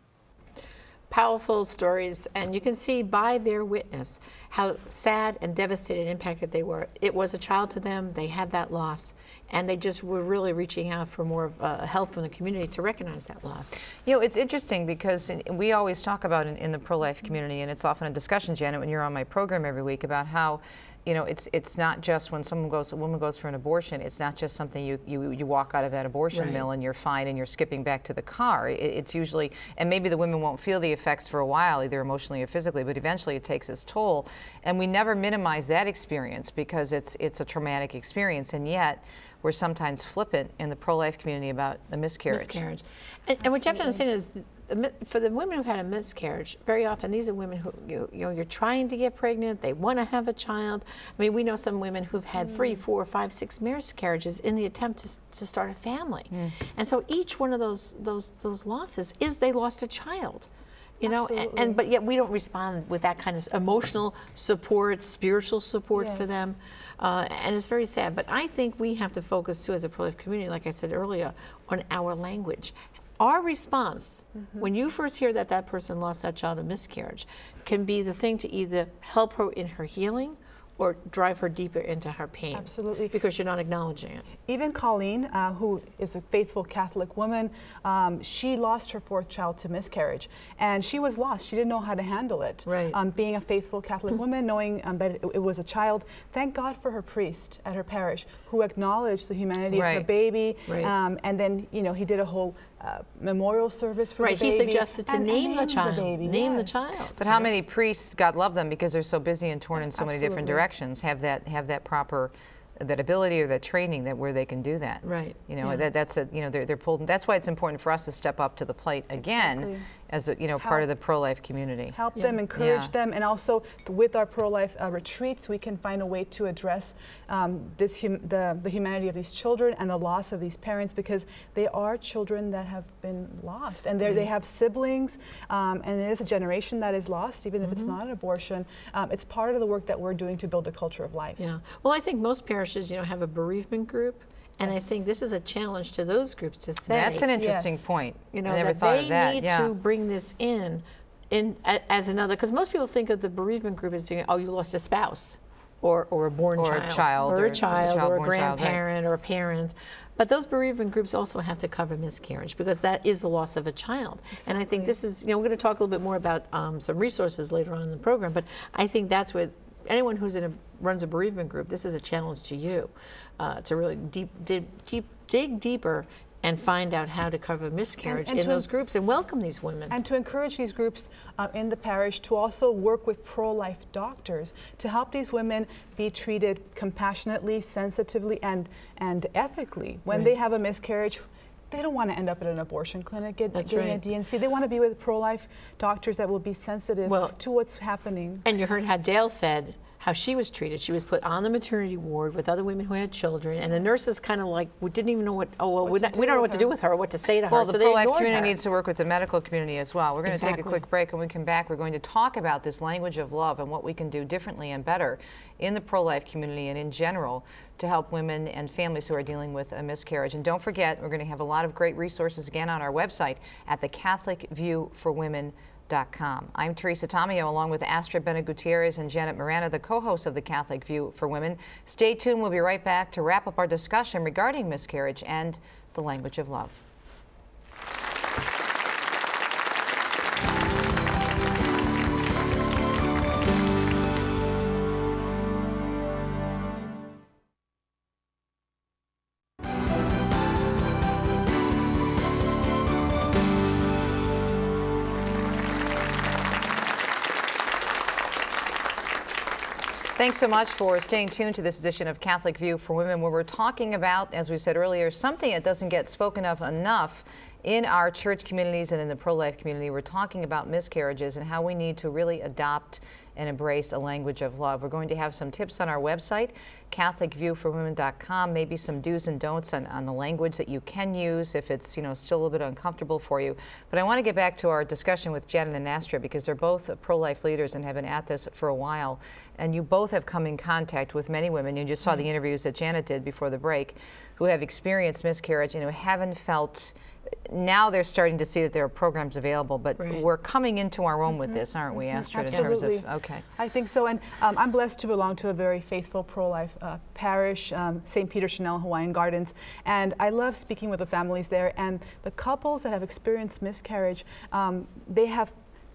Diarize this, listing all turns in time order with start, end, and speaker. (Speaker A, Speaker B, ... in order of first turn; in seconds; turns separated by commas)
Speaker A: 1.1-13.8, Speaker B: 14.0-42.6, Speaker A: 26.3-26.6, Speaker A: 42.3-60.5, Speaker C: 43.7-44.0, Speaker A: 61.0-84.3, Speaker C: 61.0-61.8, Speaker C: 66.0-66.3, Speaker C: 74.4-74.7, Speaker C: 82.5-83.2, Speaker C: 84.5-106.9, Speaker A: 92.6-93.0, Speaker B: 99.7-100.1, Speaker A: 100.7-100.9, Speaker A: 104.2-107.5, Speaker B: 107.2-122.0, Speaker C: 109.8-110.6, Speaker A: 115.0-115.9, Speaker C: 119.2-119.9, Speaker C: 120.6-120.8, Speaker C: 121.9-141.4, Speaker B: 122.5-122.9, Speaker A: 134.0-134.3, Speaker A: 137.6-137.9, Speaker A: 141.4-147.3, Speaker B: 146.8-149.7, Speaker C: 147.3-147.8, Speaker A: 148.3-180.0, Speaker B: 156.6-158.8, Speaker C: 164.3-164.9, Speaker C: 178.0-178.7, Speaker C: 179.9-198.4, Speaker A: 190.1-190.3, Speaker A: 193.5-194.0, Speaker A: 197.0-197.4, Speaker A: 198.4-208.5, Speaker C: 205.8-206.7, Speaker B: 207.5-236.8, Speaker A: 210.2-210.8, Speaker B: 260.1-303.4, Speaker A: 300.0-300.2, Speaker C: 301.3-315.5